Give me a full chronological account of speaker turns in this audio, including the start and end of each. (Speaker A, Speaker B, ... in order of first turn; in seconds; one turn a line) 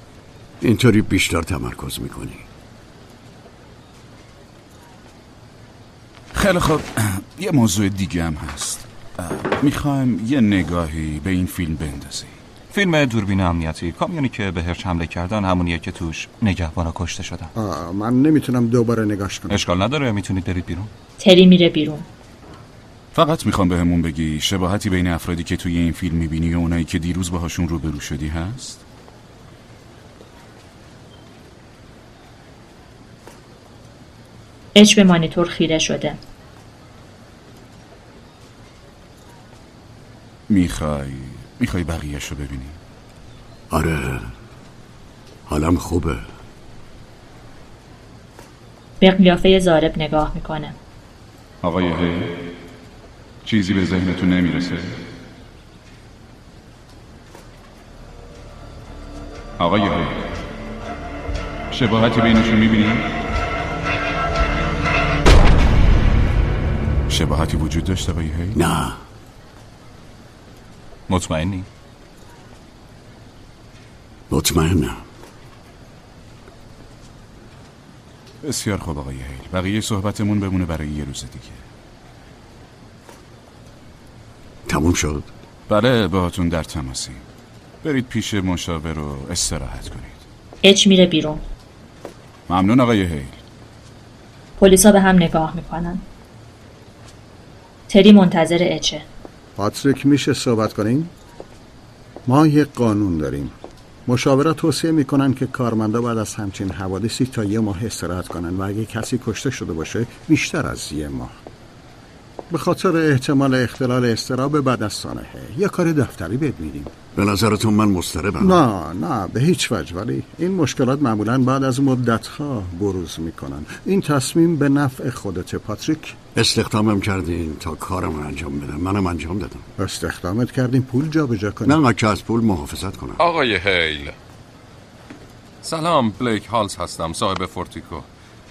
Speaker A: 0.6-2.5
Speaker B: 6.3-12.3
Speaker C: 12.7-17.5
Speaker D: 17.5-19.6
Speaker C: 19.5-20.9
Speaker E: 21.2-22.1
Speaker B: 23.1-28.8
Speaker E: 34.7-36.2
Speaker B: 40.5-42.8
Speaker A: 43.7-44.3
Speaker A: 45.5-46.2
Speaker E: 49.0-50.8
Speaker B: 51.6-52.4
Speaker B: 53.4-55.0
Speaker B: 59.6-60.3
Speaker B: 61.7-63.1
Speaker B: 67.1-68.6
Speaker A: 68.5-69.0
Speaker C: 71.1-71.7
Speaker A: 74.3-75.0
Speaker B: 78.4-81.6
Speaker A: 84.7-85.3
Speaker B: 85.7-87.2
Speaker B: 87.8-90.2
Speaker E: 90.6-91.4
Speaker B: 92.5-93.4
Speaker E: 94.6-96.0
Speaker E: 97.9-99.0
Speaker D: 99.6-101.1
Speaker D: 102.2-103.5
Speaker D: 104.1-111.3
Speaker D: 112.5-116.9
Speaker A: 117.1-118.6
Speaker D: 118.4-126.2
Speaker A: 126.3-129.7
Speaker D: 129.8-131.8
Speaker A: 131.6-133.2
Speaker F: 133.2-134.1
Speaker F: 135.6-138.1